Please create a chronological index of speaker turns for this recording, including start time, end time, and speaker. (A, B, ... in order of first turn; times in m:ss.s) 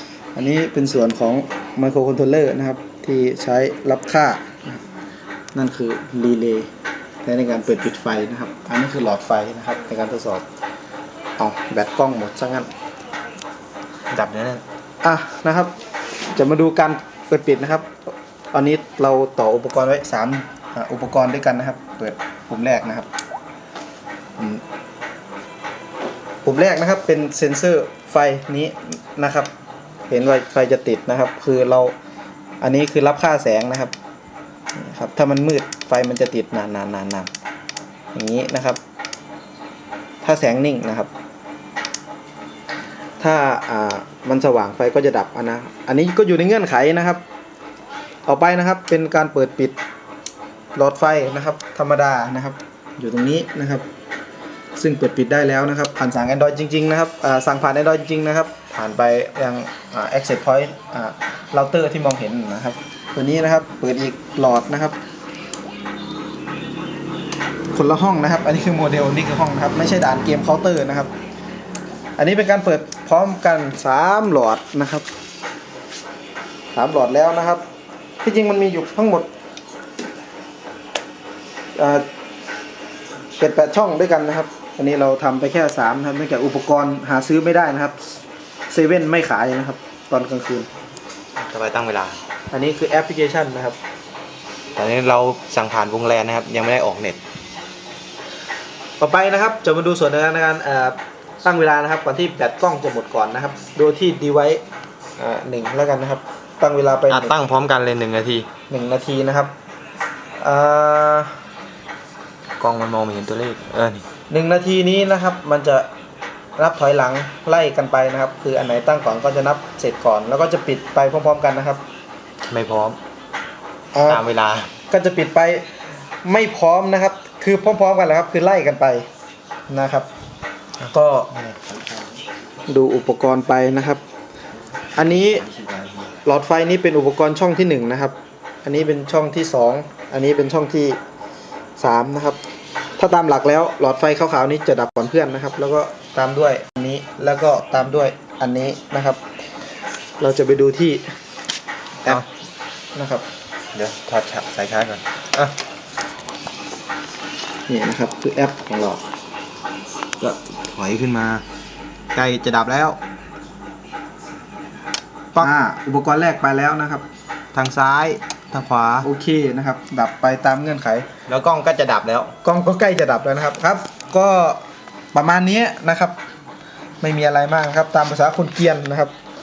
0:00.4-0:04.8 A
0:05.5-0:06.7 A
0:07.2-0:10.4 A
0:11.4-0:12.7 A
0:14.1-0:14.6 B
0:15.0-0:15.7 A
0:16.4-0:18.0 A
0:18.5-0:23.1 A
0:24.4-0:24.6 A
0:26.4-0:29.5 A
0:30.1-0:31.9 A
0:32.6-0:33.9 A
0:34.8-0:37.3 A
0:38.1-0:38.8 A
0:40.2-0:41.1 A
0:43.2-0:47.2 A
0:48.3-0:49.8 A
0:50.7-0:53.9 A
0:54.8-1:05.0 A
1:07.7-1:11.1 A
1:12.2-1:15.1 A
1:16.7-1:17.6 A
1:18.2-1:19.3 A
1:21.8-1:22.1 A
1:23.4-1:30.7 A
1:31.4-1:32.2 B
1:32.5-1:33.8 A
1:34.8-1:37.2 B
1:39.0-1:44.6 A
1:45.2-1:47.4 A
1:47.1-1:48.5 B
1:48.7-1:49.5 A
1:50.4-1:51.4 A
1:52.6-1:54.1 B
1:54.3-1:55.9 A
1:56.6-2:01.8 A
2:02.5-2:03.0 B
2:03.9-2:04.2 A
2:04.1-2:04.7 B
2:04.9-2:05.7 A
2:06.2-2:09.1 A
2:09.7-2:10.1 A
2:10.9-2:11.3 A
2:11.2-2:12.0 B
2:12.7-2:14.0 A
2:15.0-2:15.5 A
2:15.5-2:15.8 B
2:16.2-2:21.0 A
2:21.8-2:22.4 A
2:23.0-2:29.2 A
2:30.2-2:31.1 A
2:33.0-2:33.3 A
2:33.7-2:35.6 B
2:37.7-2:39.0 A
2:40.2-2:41.4 B
2:42.1-2:43.0 B
2:45.4-2:47.1 A
2:47.5-2:49.1 B
2:49.0-2:51.1 A
2:51.3-2:52.3 B
2:52.4-2:56.2 A
2:57.0-2:59.1 A